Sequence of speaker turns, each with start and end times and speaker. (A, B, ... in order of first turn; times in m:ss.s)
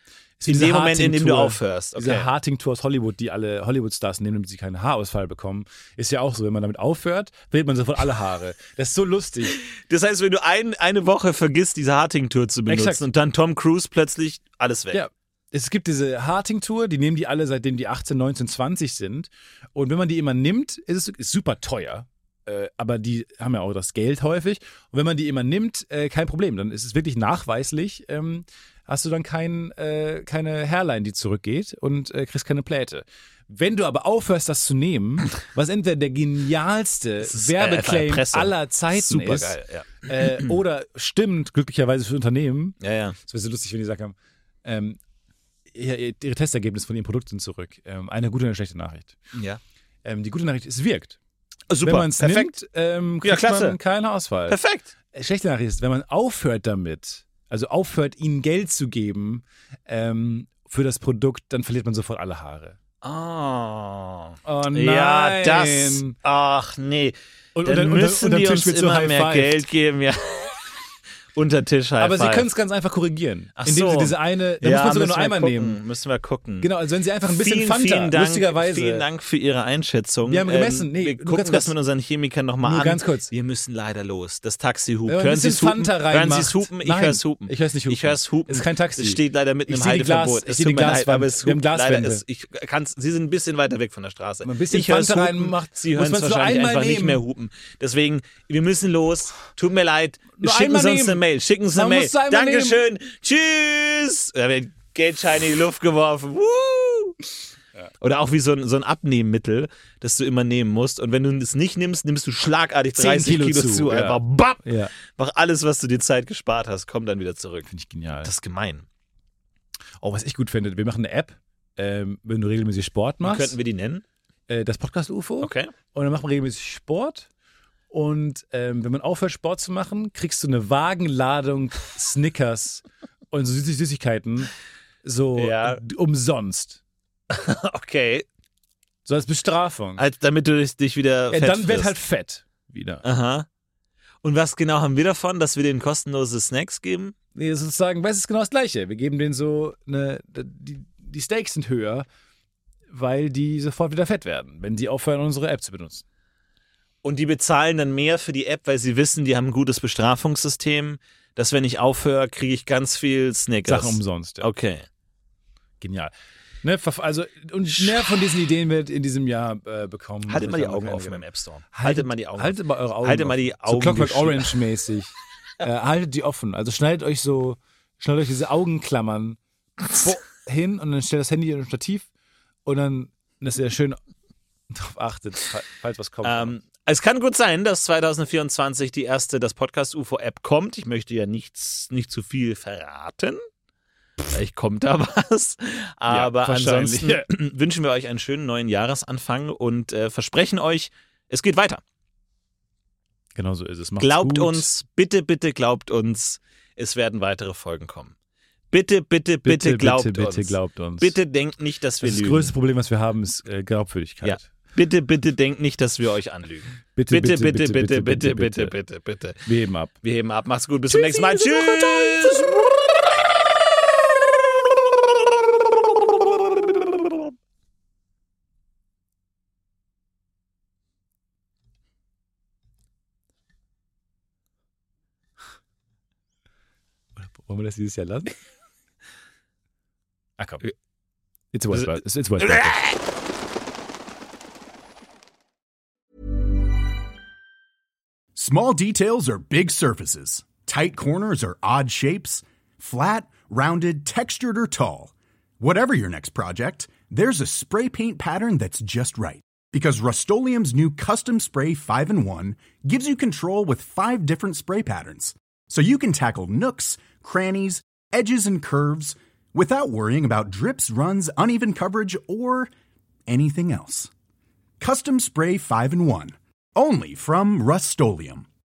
0:00.4-0:09.6 A
0:00.5-0:02.3 B
0:09.6-0:15.0 B
0:12.7-0:13.0 A
0:14.9-0:45.0 A
0:37.2-0:40.5 B
0:42.8-0:43.2 B
0:45.7-0:49.2 A
0:49.3-0:49.6 B
0:50.0-0:51.2 A
0:51.7-0:52.5 B
0:51.8-0:54.6 A
0:53.2-0:53.8 B
0:54.5-0:54.9 B
0:55.1-1:02.8 A
1:03.0-1:10.6 B
1:04.4-1:06.2 A
1:07.5-1:09.7 A
1:11.3-1:12.4 B
1:12.0-1:15.8 A
1:13.6-1:16.7 B
1:16.6-1:19.0 A
1:17.3-1:47.2 B
1:20.2-1:21.7 A
1:22.6-1:23.3 A
1:25.0-1:32.2 A
1:34.4-1:37.2 A
1:40.4-1:42.8 A
1:48.0-1:57.7 B
1:52.9-1:54.9 A
1:57.7-1:58.3 A
1:58.2-1:58.8 B
2:00.0-2:03.6 A
2:03.2-2:04.0 B
2:04.5-2:07.3 A
2:05.4-2:05.7 B
2:07.9-2:14.5 A
2:15.0-2:16.8 A
2:15.4-2:15.8 B
2:17.3-2:18.2 B
2:19.0-2:20.0 A
2:20.0-2:21.9 B
2:21.3-2:23.0 A
2:23.0-2:23.4 B
2:24.2-2:27.1 B
2:27.3-2:32.0 A
2:32.9-2:36.0 A
2:37.0-2:44.8 B
2:43.6-2:44.5 A
2:45.8-2:59.4 A
2:50.3-2:54.6 B
3:00.0-3:02.1 A
3:02.6-3:04.0 A
3:04.7-3:06.6 A
3:06.2-3:13.4 B
3:14.2-3:21.8 B
3:16.1-3:17.3 A
3:23.3-3:24.7 A
3:24.0-3:28.1 B
3:28.7-3:32.5 B
3:29.4-3:31.2 A
3:32.0-3:34.5 A
3:34.2-3:39.4 B
3:36.9-3:38.7 A
3:39.4-3:40.0 A
3:40.0-3:42.8 B
3:40.9-3:42.0 A
3:57.2-3:58.3 A
4:01.5-4:02.8 A
4:02.4-4:03.0 B
4:08.3-4:32.7 C
4:33.3-4:34.1 C
4:34.8-4:38.4 C